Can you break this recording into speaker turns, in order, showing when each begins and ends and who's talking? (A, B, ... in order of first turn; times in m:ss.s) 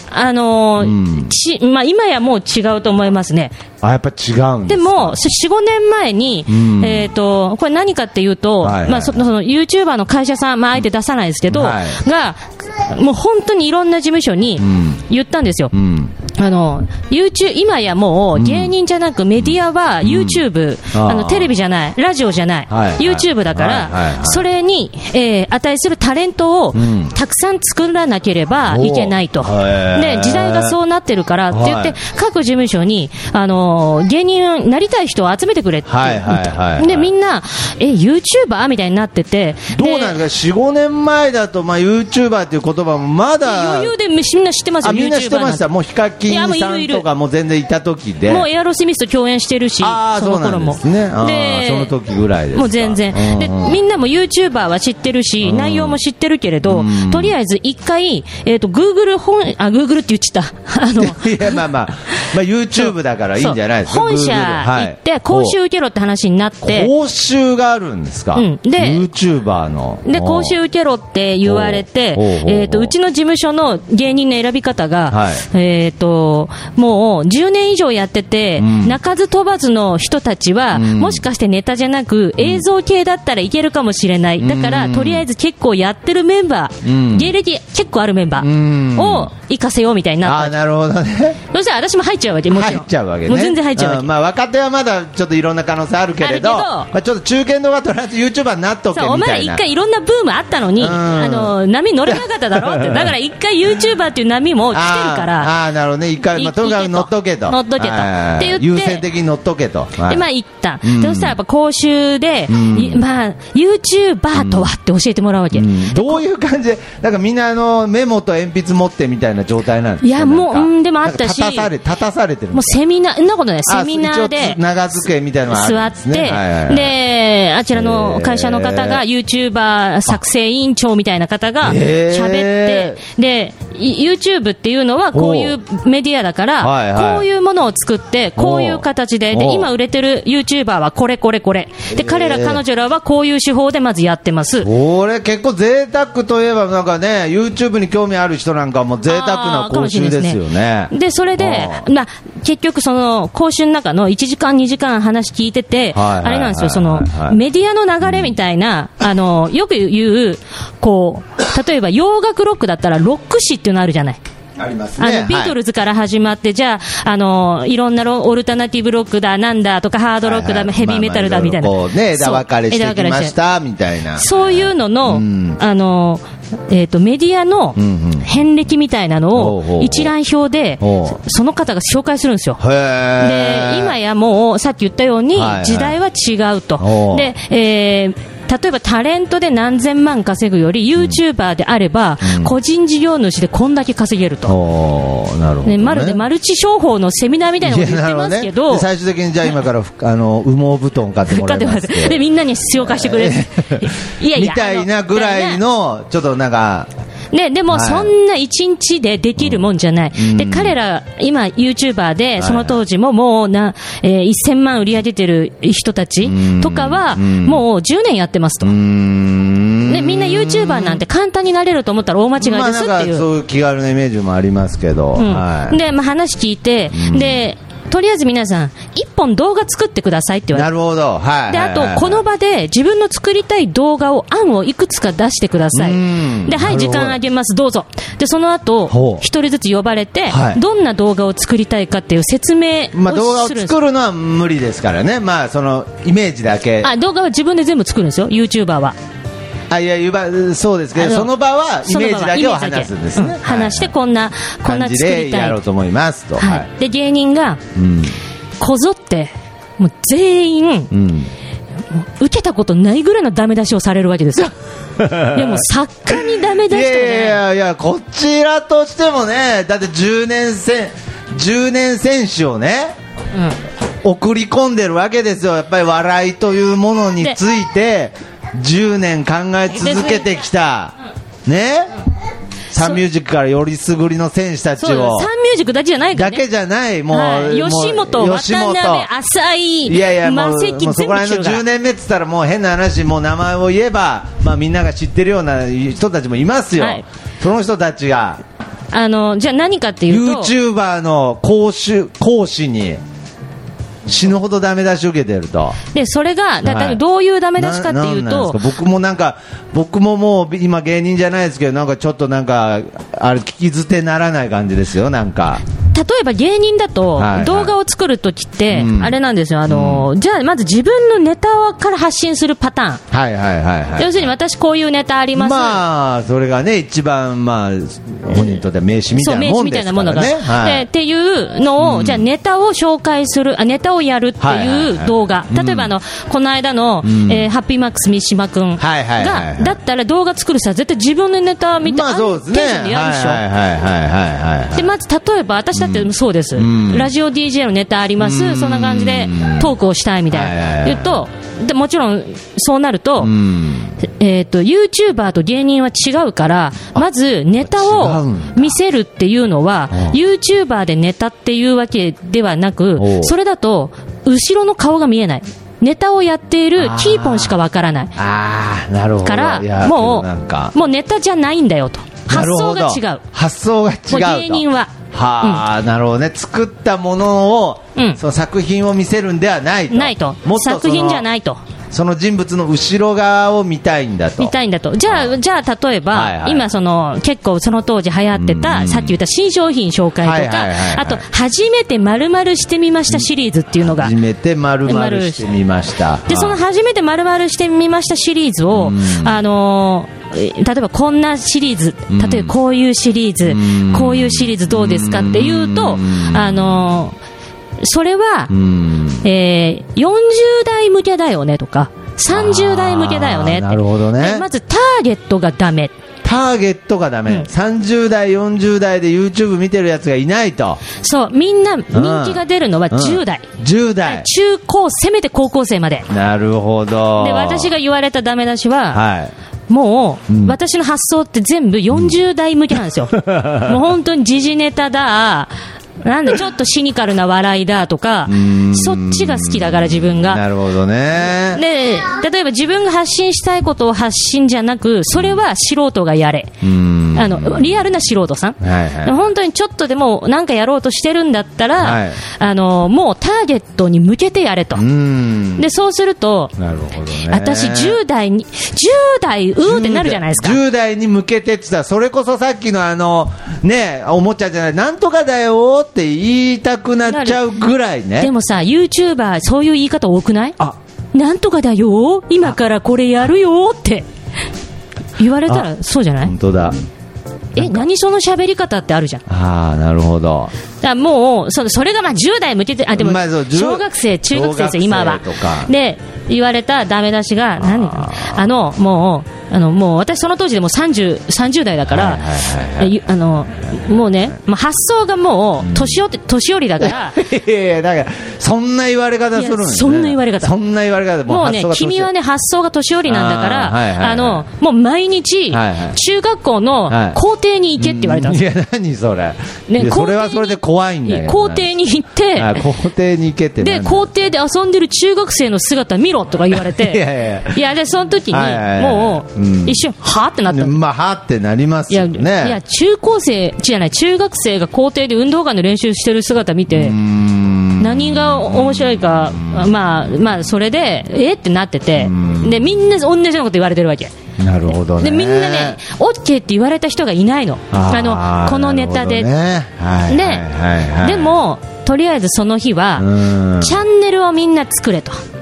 0:00.1-0:03.6 A
0:00.8-0:01.3 B
0:03.8-0:05.2 B
0:04.7-0:15.7 A
0:06.5-0:07.1 B
0:08.6-0:09.2 B
0:11.5-0:12.0 B
0:14.6-0:15.0 B
0:15.7-0:16.1 B
0:16.3-0:40.2 A
0:18.3-0:18.7 B
0:19.4-0:21.5 B
0:22.7-0:24.4 B
0:26.7-0:27.1 B
0:28.7-0:30.8 B
0:31.5-0:32.0 B
0:35.9-0:37.1 B
0:39.7-0:43.9 B
0:43.4-0:45.7 A
0:44.8-0:48.5 B
0:46.3-0:47.0 A
0:48.3-0:51.9 A
0:49.8-0:53.8 B
0:52.5-1:01.6 A
0:55.4-0:56.0 B
0:56.6-0:57.3 B
1:01.0-1:05.6 B
1:02.8-1:06.9 A
1:06.6-1:10.6 B
1:08.3-1:09.0 A
1:10.0-1:30.5 A
1:11.4-1:12.9 B
1:15.1-1:15.4 B
1:18.6-1:19.0 B
1:20.7-1:21.2 B
1:22.4-1:22.6 B
1:24.4-1:25.2 B
1:26.8-1:27.3 B
1:28.4-1:29.3 B
1:30.2-1:31.4 B
1:31.5-1:34.1 A
1:32.5-1:39.6 B
1:36.2-1:36.9 A
1:38.9-1:45.5 A
1:40.8-1:43.1 B
1:44.7-1:50.2 B
1:46.3-1:49.0 A
1:50.1-1:56.2 A
1:50.8-1:51.4 B
1:52.5-1:53.0 B
1:54.3-1:54.7 B
1:55.5-2:02.8 B
2:00.0-2:01.7 A
2:02.5-2:04.6 A
2:03.6-2:06.9 B
2:05.5-2:24.7 A
2:07.7-2:09.0 B
2:11.6-2:13.0 B
2:15.1-2:15.6 B
2:16.6-2:17.2 B
2:18.4-2:19.7 B
2:21.9-2:22.6 B
2:24.6-2:31.9 B
2:29.1-2:44.2 A
2:35.9-2:37.4 B
2:38.0-2:38.3 B
2:44.6-2:45.6 B
2:45.0-2:53.3 A
2:50.2-2:55.6 B
2:54.2-3:02.6 A
2:57.8-2:58.3 B
2:59.3-3:00.1 B
3:00.8-3:01.2 B
3:02.6-3:03.9 B
3:03.2-3:14.5 A
3:05.3-3:06.0 B
3:06.8-3:07.3 B
3:12.2-3:12.5 B
3:14.5-3:16.2 B
3:15.6-3:18.9 A
3:17.6-3:22.2 B
3:21.3-3:25.6 A
3:22.8-3:26.9 B
3:27.3-3:38.7 A
3:27.7-3:28.1 B
3:29.4-3:30.8 B
3:32.4-3:32.8 B
3:36.2-3:37.6 B
3:38.6-3:41.0 B
3:39.8-3:43.2 A
3:42.4-3:45.8 B
3:45.2-3:50.7 A
3:46.9-3:47.4 B
3:50.5-3:52.2 B
3:51.5-4:03.7 A
3:55.7-3:57.2 B
3:58.9-3:59.2 B
4:00.3-4:00.6 B
4:02.9-4:06.9 B
4:06.8-4:09.0 A
4:09.7-4:13.9 B
4:11.0-4:11.3 A
4:11.8-4:15.6 A
4:14.6-4:16.7 B
4:16.4-4:17.6 A
4:17.7-4:18.2 B
4:18.6-4:20.9 A
4:20.9-4:21.3 B
4:21.9-4:24.5 A
4:25.0-4:33.0 B
4:25.3-4:27.4 A
4:34.0-4:40.9 B
4:39.7-4:40.2 A
4:41.4-4:42.0 B
4:42.7-4:45.3 B
4:44.8-4:46.4 A
4:46.1-4:49.1 B
4:47.1-4:51.6 A
4:49.8-4:58.4 B
4:56.8-4:57.0 A
4:58.9-5:00.5 A
5:00.1-5:03.0 B
5:04.0-5:05.8 B
5:05.9-5:08.6 A
5:06.6-5:07.0 B
5:07.6-5:15.6 B
5:15.9-5:23.0 A
5:17.2-5:17.7 B
5:18.7-5:19.1 B
5:19.6-5:20.1 B
5:23.1-5:24.3 B
5:24.0-5:25.8 A
5:25.3-5:30.8 B
5:29.1-5:43.4 A
5:31.8-5:32.2 B
5:34.4-5:35.9 B
5:37.0-5:37.5 B
5:38.8-5:39.8 B
5:41.8-5:44.9 B
5:44.7-5:53.3 A
5:45.7-5:47.1 B
5:48.2-5:49.7 B
5:50.3-5:51.2 B
5:53.2-5:54.0 B
5:54.0-6:08.1 A
5:57.6-5:58.8 B
5:59.9-6:00.2 B
6:03.0-6:03.3 B
6:06.8-6:07.6 B
6:08.2-6:10.7 B
6:09.2-6:13.2 A
6:12.3-6:21.2 B
6:14.1-6:15.6 A
6:19.9-6:21.6 A
6:21.9-6:24.5 B
6:24.4-6:34.1 A
6:25.0-6:25.3 B
6:26.1-6:26.7 B
6:28.3-6:29.2 B
6:30.2-6:31.2 B
6:33.8-6:36.6 B
6:34.8-6:35.4 A
6:36.3-6:47.2 A
6:38.7-6:39.4 B
6:42.1-6:42.5 B
6:43.4-6:46.8 B
6:47.8-6:48.5 A
6:48.5-6:49.2 B
6:49.2-6:55.9 A
6:52.3-6:54.5 B
6:56.2-7:00.8 B
7:01.0-7:03.4 A
7:01.9-7:04.3 B
7:04.0-7:06.1 A
7:06.1-7:07.7 B
7:07.2-7:09.0 A
7:08.9-7:09.3 B
7:09.7-7:15.5 A
7:10.3-7:10.6 B
7:13.1-7:13.8 B
7:16.0-7:20.4 A
7:18.3-7:21.6 B
7:21.5-7:26.5 A
7:26.6-7:27.7 B
7:27.1-7:34.8 A
7:28.6-7:29.2 B
7:31.8-7:32.2 B
7:34.7-7:35.7 B
7:35.6-7:36.5 A
7:36.6-7:38.0 B
7:37.3-7:40.6 A
7:39.6-7:48.3 B
7:47.0-7:47.4 A
7:48.2-7:50.6 A
7:51.1-7:54.1 A
7:55.2-7:56.3 A
7:56.2-7:56.8 B
7:57.5-7:59.2 A
7:57.6-7:57.8 B
7:59.3-8:00.5 B
8:00.8-8:17.2 A
8:03.0-8:05.7 B
8:07.6-8:08.4 B
8:11.9-8:13.0 B
8:15.6-8:16.0 B
8:16.8-8:22.1 B
8:19.3-8:20.5 A
8:21.3-8:28.4 A
8:23.1-8:24.4 B
8:25.5-8:26.0 B
8:26.9-8:27.2 B
8:27.8-8:31.7 B
8:29.7-8:32.6 A
8:32.4-8:34.1 B
8:33.6-8:40.8 A
8:36.5-8:37.6 B
8:38.3-8:39.8 B
8:40.5-8:42.6 B
8:41.9-8:47.0 A
8:46.7-8:49.7 B
8:47.8-8:54.1 A
8:52.0-8:52.7 B
8:54.4-8:55.8 B
8:54.9-8:59.3 A
8:57.7-9:01.4 B
9:00.1-9:00.4 A
9:01.0-9:05.2 A
9:03.0-9:03.8 B